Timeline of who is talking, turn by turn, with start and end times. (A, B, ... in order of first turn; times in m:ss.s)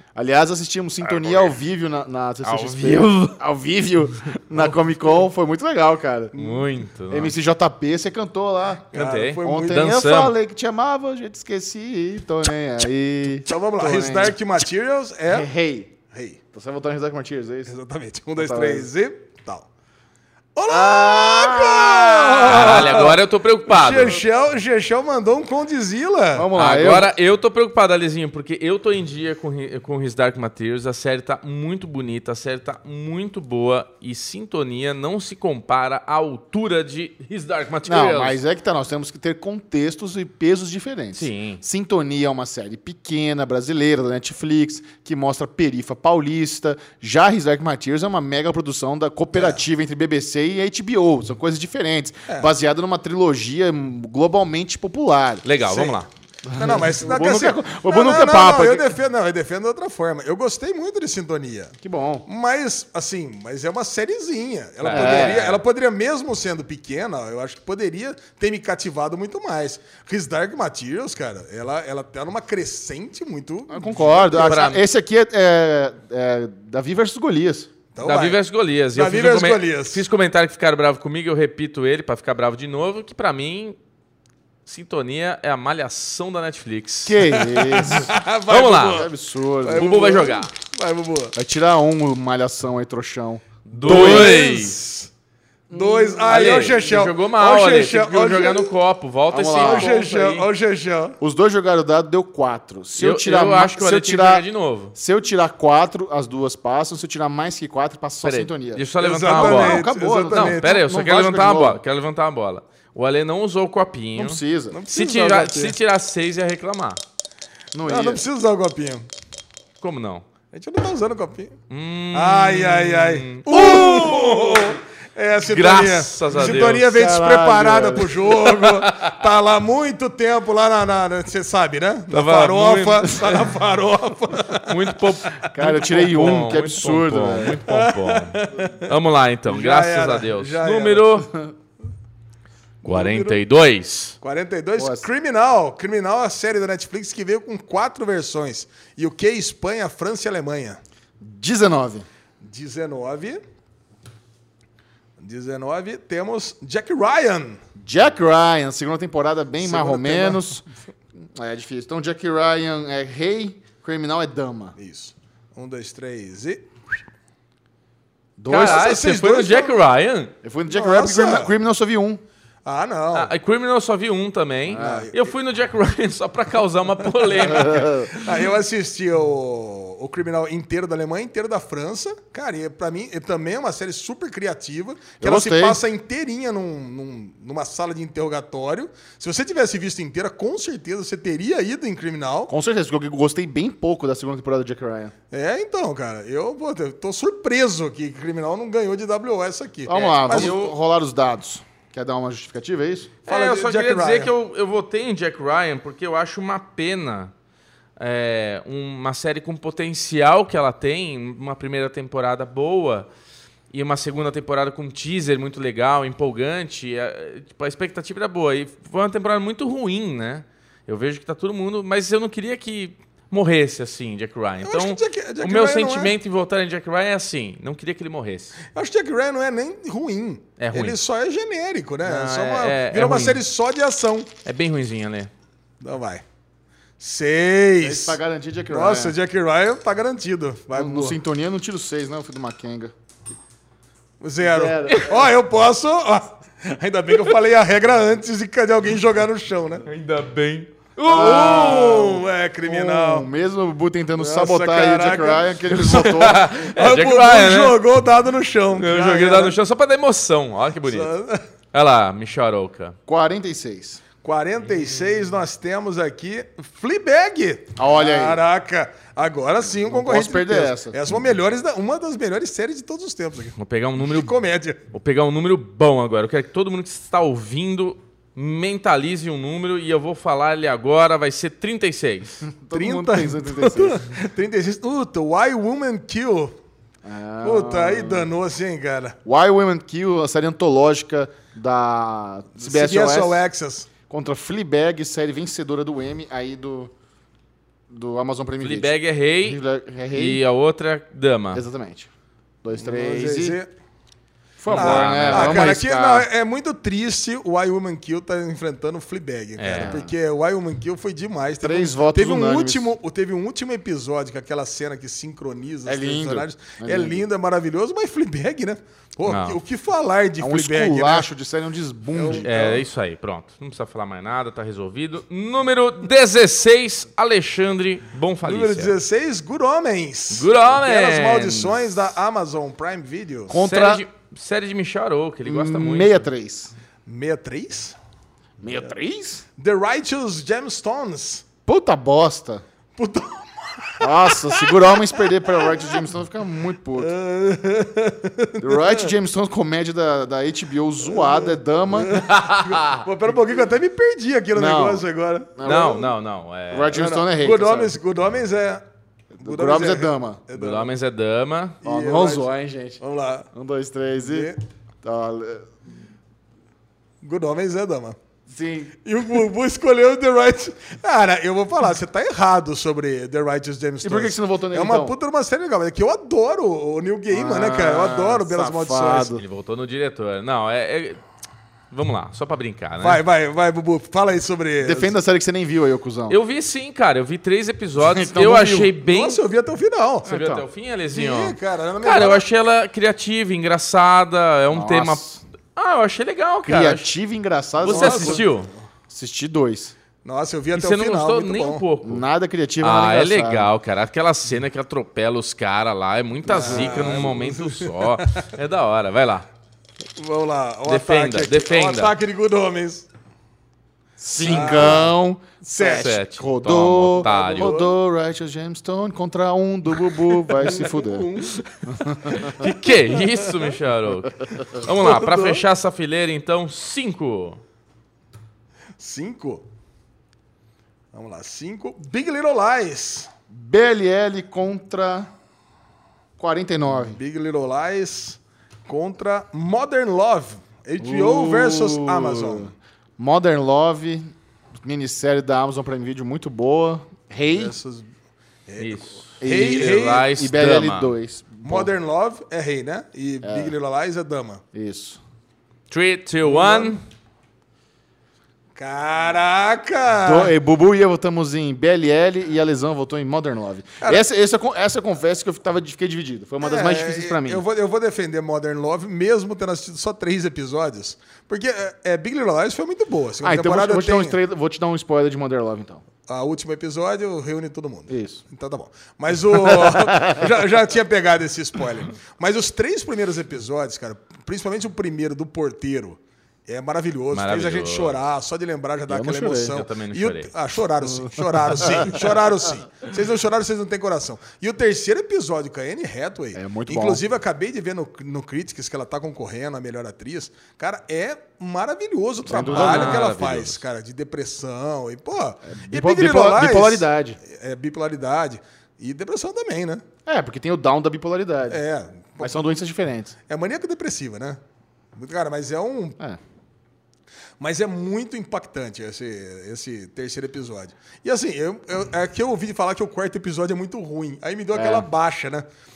0:00.1-0:06.3 A
0:02.4-0:03.4 B
0:04.5-0:05.1 C
0:06.3-0:06.6 C
0:06.3-0:07.3 B
0:07.1-0:14.4 A
0:08.9-0:09.9 C
0:08.9-0:10.3 B
0:13.4-0:15.5 C
0:15.3-0:15.9 A
0:16.1-0:16.4 C
0:16.5-0:17.7 A
0:17.7-0:19.6 C
0:18.4-0:18.9 A
0:20.6-0:26.5 C
0:20.7-0:23.1 A
0:22.4-0:24.2 B
0:26.3-0:27.1 A
0:26.5-0:38.4 B
0:37.8-0:55.4 A
0:41.1-0:41.6 B
0:49.3-0:49.6 C
0:55.4-0:56.1 B
0:55.6-0:56.0 C
0:56.5-0:58.9 A
0:56.5-1:01.7 C
1:01.8-1:02.2 A
1:02.3-1:14.7 C
1:04.8-1:05.6 B
1:04.9-1:05.4 A
1:13.7-1:17.7 A
1:14.3-1:14.8 B
1:17.9-1:18.4 C
1:18.0-1:23.8 B
1:18.9-1:20.0 C
1:24.6-1:27.2 B
1:27.0-1:28.1 A
1:27.3-1:29.1 C
1:28.5-1:29.1 B
1:28.9-1:30.2 A
1:29.6-1:31.3 C
1:29.7-1:30.5 B
1:31.3-1:34.6 A
1:33.6-1:34.8 B
1:33.8-1:35.1 C
1:35.7-1:36.5 A
1:35.7-1:38.7 C
1:36.3-1:40.5 B
1:39.3-1:40.0 A
1:39.6-1:41.2 C
1:41.2-1:51.8 A
1:43.0-1:44.9 B
1:48.2-1:57.0 B
1:49.0-1:50.8 C
1:54.2-1:54.8 A
1:54.7-1:55.8 C
1:57.7-1:58.2 A
1:57.8-1:59.1 C
1:59.8-2:00.2 B
2:00.5-2:01.6 C
2:01.7-2:04.8 B
2:02.1-2:15.0 C
2:05.5-2:06.8 B
2:06.7-2:08.3 A
2:08.7-2:09.1 B
2:12.1-2:13.5 B
2:14.6-2:21.3 B
2:15.5-2:17.6 A
2:17.7-2:18.9 C
2:19.5-2:21.1 C
2:22.8-2:23.4 C
2:22.8-2:24.2 B
2:24.2-2:30.8 C
2:24.8-2:25.0 A
2:31.2-2:32.1 A
2:32.4-2:33.4 C
2:35.2-2:37.6 C
2:37.8-2:40.6 A
2:39.6-2:40.4 C
2:41.3-2:44.7 A
2:44.8-2:46.7 C
2:48.4-2:49.0 A
2:48.5-2:50.3 B
2:48.5-2:49.8 C
2:50.4-2:52.2 A
2:50.7-2:51.5 C
2:52.6-2:53.3 C
2:53.1-2:58.3 B
2:54.7-2:55.3 C
2:54.7-2:55.1 A
2:57.4-2:58.1 A
2:58.1-3:12.5 C
3:05.2-3:05.8 A
3:12.5-3:15.1 A
3:15.3-3:20.6 C
3:19.9-3:23.1 A
3:19.9-3:20.7 B
3:23.2-3:27.3 B
3:23.3-3:24.3 C
3:28.0-3:33.1 B
3:33.7-3:48.6 B
3:44.6-3:46.2 C
3:48.7-3:54.3 C
3:50.6-3:51.0 B
3:52.0-3:53.4 B
3:54.4-3:55.3 B
3:55.8-3:56.2 C
3:57.0-3:58.2 C
3:57.8-3:59.2 A
3:58.7-4:01.2 C
4:00.7-4:02.9 A
4:04.2-4:09.8 C
4:04.4-4:05.3 A
4:09.8-4:12.1 B
4:11.1-4:13.3 C
4:11.1-4:16.4 A
4:14.2-4:19.6 C
4:15.8-4:17.8 B
4:18.7-4:21.1 B
4:20.9-4:21.4 C
4:21.7-4:23.0 B
4:23.1-4:24.0 A
4:24.2-4:34.8 C
4:27.8-4:28.4 A
4:29.8-4:31.3 A
4:33.6-4:34.3 B
4:34.9-4:42.4 B
4:42.4-4:44.0 A
4:42.7-4:46.5 C
4:47.0-4:48.3 A
4:47.4-4:49.2 C
4:49.2-4:53.4 A
4:52.6-4:53.9 C
4:54.1-4:56.9 A
4:57.9-5:00.4 A
4:58.6-4:59.6 B
5:00.1-5:01.6 B
5:01.5-5:02.1 A
5:02.6-5:03.6 A
5:02.8-5:03.7 C
5:04.6-5:06.3 A
5:04.7-5:05.7 B
5:04.7-5:21.3 C
5:09.6-5:10.0 B
5:09.7-5:10.1 A
5:11.6-5:12.9 A
5:15.8-5:17.2 A
5:19.2-5:19.6 B
5:20.4-5:22.8 A
5:22.1-5:22.8 C
5:22.4-5:29.0 B
5:28.4-5:33.6 C
5:30.3-5:31.8 B
5:33.5-5:34.0 A
5:33.5-5:36.3 B
5:35.4-5:36.7 A
5:37.0-5:38.0 C
5:38.6-5:39.4 A
5:39.6-5:41.4 C
5:41.6-5:42.6 A
5:43.0-5:46.0 C
5:44.0-5:47.1 A
5:47.0-5:49.1 C
5:48.6-5:52.2 A
5:51.0-5:56.0 C
5:52.1-5:53.0 B
5:54.5-5:56.1 A
5:55.6-5:57.0 B
5:56.7-5:58.0 A
5:56.9-5:58.8 C
5:59.4-6:00.4 A
5:59.4-6:00.9 C
6:00.5-6:01.8 B
6:01.8-6:03.5 C
6:01.8-6:03.0 A
6:03.5-6:04.5 A
6:04.2-6:04.6 C
6:05.0-6:05.7 A
6:07.2-6:08.2 C
6:08.5-6:08.9 A
6:09.0-6:19.3 C
6:14.0-6:15.1 A
6:17.3-6:19.4 A
6:19.4-6:21.2 B
6:21.9-6:23.2 B
6:23.0-6:25.1 C
6:24.8-6:26.4 A
6:26.3-6:29.4 B
6:28.0-6:28.9 A
6:29.0-6:30.3 C
6:30.2-6:30.6 A
6:30.2-6:35.2 B
6:31.1-6:32.4 C
6:34.7-6:35.4 A
6:35.7-6:37.1 B
6:36.6-6:38.4 A
6:37.8-6:38.7 B
6:37.8-6:38.6 C
6:39.1-6:39.9 A
6:40.2-6:41.8 C
6:40.7-6:42.2 B
6:42.0-6:43.7 A
6:42.8-6:49.5 B
6:46.5-6:47.3 A
6:46.5-6:48.4 C
6:50.2-6:53.1 C
6:50.9-6:52.1 B
6:54.2-7:01.3 A
6:54.4-6:56.2 C
6:54.6-6:55.0 B
6:55.8-6:57.8 B
6:57.2-6:57.9 C
7:00.5-7:01.9 C
7:01.9-7:02.7 A
7:02.2-7:07.6 B
7:02.6-7:03.7 C
7:04.6-7:05.6 C
7:09.0-7:09.6 C
7:11.1-7:13.3 C
7:13.5-7:15.3 A
7:16.4-7:17.2 A
7:16.9-7:22.7 C
7:21.0-7:27.8 A
7:27.5-7:28.1 C
7:28.7-7:30.3 C
7:28.8-7:31.1 B
7:29.4-7:31.9 A
7:31.6-7:34.6 C
7:33.4-7:33.7 A
7:34.7-7:35.2 A
7:35.9-7:37.0 B
7:36.4-7:37.0 C
7:38.8-7:40.5 C
7:40.2-7:47.6 A
7:46.6-7:54.4 C
7:53.4-7:56.0 A
7:56.3-8:30.0 C
7:58.1-7:58.4 A
7:59.5-8:00.5 A
8:07.3-8:08.2 B
8:09.1-8:09.8 A
8:09.7-8:10.5 B
8:11.8-8:12.2 A
8:16.5-8:17.2 A
8:22.4-8:23.3 A
8:22.5-8:23.8 B
8:25.7-8:27.4 A
8:30.2-8:31.8 A
8:31.7-8:32.6 C
8:32.4-8:33.3 A
8:33.5-8:34.6 C
8:35.1-8:36.2 C
8:37.6-8:45.6 C
8:44.7-8:45.1 A